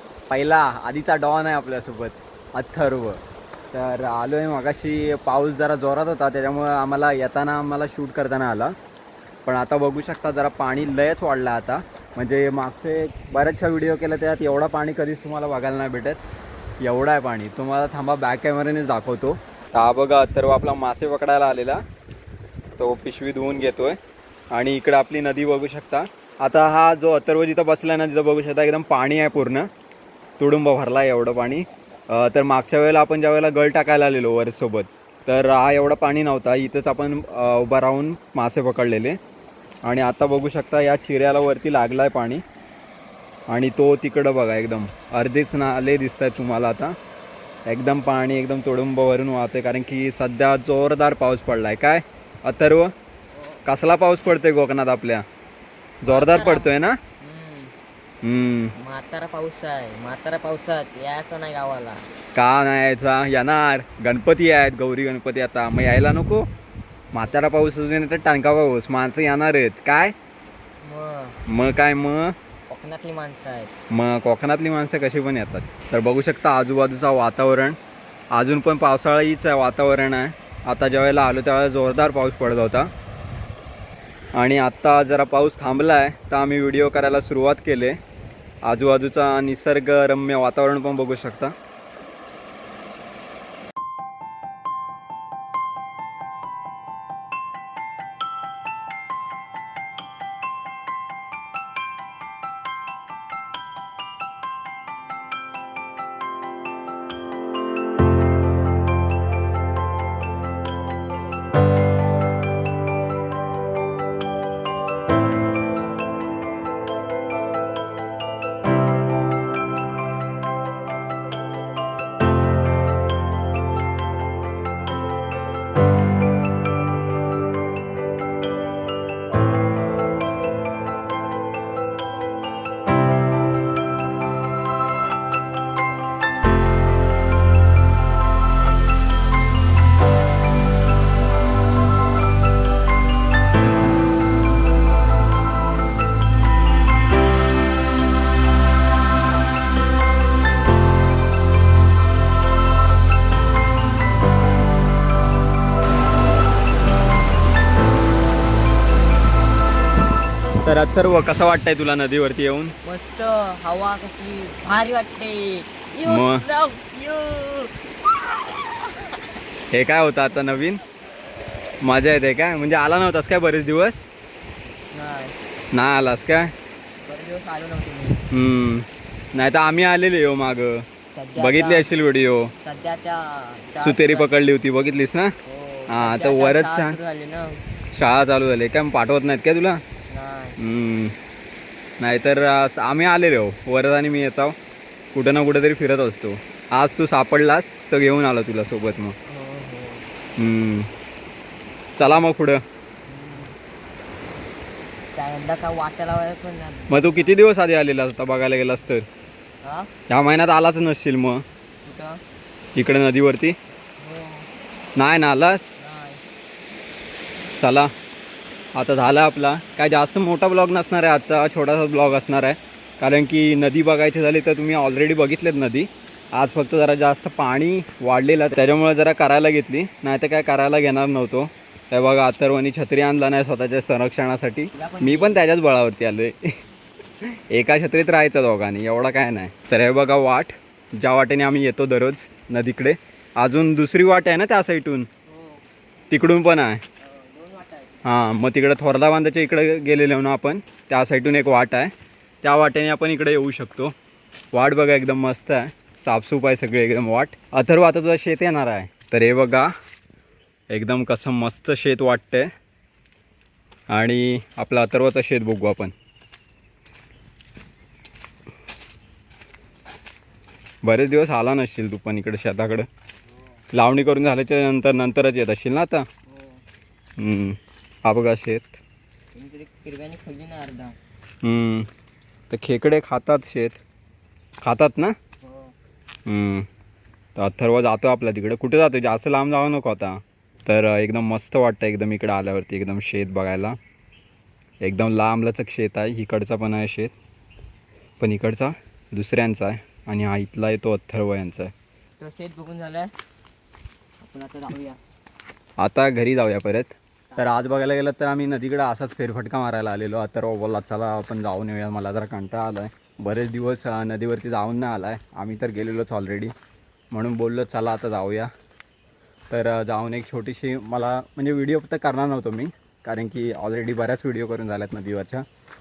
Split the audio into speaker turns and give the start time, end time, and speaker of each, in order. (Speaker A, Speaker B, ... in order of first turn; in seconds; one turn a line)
Speaker A: 0.3-3.2
Speaker A: 3.7-8.7
Speaker A: 9.5-16.2
Speaker A: 16.8-21.8
Speaker A: 22.8-24.0
Speaker A: 24.5-29.7
Speaker A: 30.4-39.2
Speaker A: 39.8-42.4
Speaker A: 43.5-46.9
Speaker A: 47.7-52.9
Speaker B: 53.4-53.6
Speaker A: 53.6-55.2
Speaker A: 56.0-57.0
Speaker B: 56.1-57.7
Speaker A: 58.2-58.7
Speaker B: 58.8-62.0
Speaker A: 62.4-66.4
Speaker A: 67.1-70.1
Speaker B: 70.8-71.4
Speaker A: 71.5-72.3
Speaker B: 72.7-73.7
Speaker A: 73.9-77.8
Speaker A: 78.3-82.9
Speaker A: 84.4-88.0
Speaker A: 88.7-91.5
Speaker A: 160.6-162.7
Speaker B: 162.8-167.7
Speaker A: 166.1-166.4
Speaker B: 168.6-168.9
Speaker A: 169.7-170.8
Speaker A: 171.8-174.0
Speaker B: 174.9-175.3
Speaker A: 175.7-176.5
Speaker B: 177.1-178.2
Speaker A: 178.3-180.8
Speaker B: 181.2-181.9
Speaker A: 181.4-182.5
Speaker B: 182.6-184.3
Speaker A: 183.8-185.3
Speaker B: 185.5-187.6
Speaker A: 185.9-187.0
Speaker A: 187.9-189.8
Speaker B: 190.1-190.6
Speaker A: 190.6-191.2
Speaker A: 192.0-194.5
Speaker A: 195.1-199.2
Speaker B: 199.3-200.1
Speaker A: 200.4-200.9
Speaker A: 202.0-202.6
Speaker B: 203.1-203.6
Speaker B: 205.2-207.4
Speaker A: 206.9-209.1
Speaker B: 209.6-209.9
Speaker A: 210.1-211.4
Speaker B: 211.8-212.2
Speaker A: 212.8-213.6
Speaker B: 214.0-214.5
Speaker A: 215.0-215.7
Speaker B: 215.8-216.2
Speaker A: 217.6-217.9
Speaker A: 218.8-236.4
Speaker B: 234.8-235.4
Speaker A: 237.5-245.1
Speaker B: 245.3-245.6
Speaker A: 246.1-246.8
Speaker B: 247.0-248.1
Speaker A: 248.1-251.9
Speaker A: 252.4-253.9
Speaker A: 254.5-259.7
Speaker A: 260.7-262.5
Speaker A: 263.9-265.9
Speaker A: 270.8-272.9
Speaker A: 273.7-276.1
Speaker B: 276.3-276.6
Speaker A: 277.2-278.8
Speaker B: 279.4-281.0
Speaker A: 281.4-281.9
Speaker A: 282.5-283.8
Speaker A: 284.6-285.1
Speaker B: 285.4-285.8
Speaker A: 286.3-286.7
Speaker A: 287.4-293.8
Speaker A: 294.8-297.1
Speaker A: 298.2-301.7
Speaker B: 302.2-303.1
Speaker B: 304.2-305.0
Speaker A: 305.8-316.5
Speaker A: 317.1-318.5
Speaker A: 319.5-325.5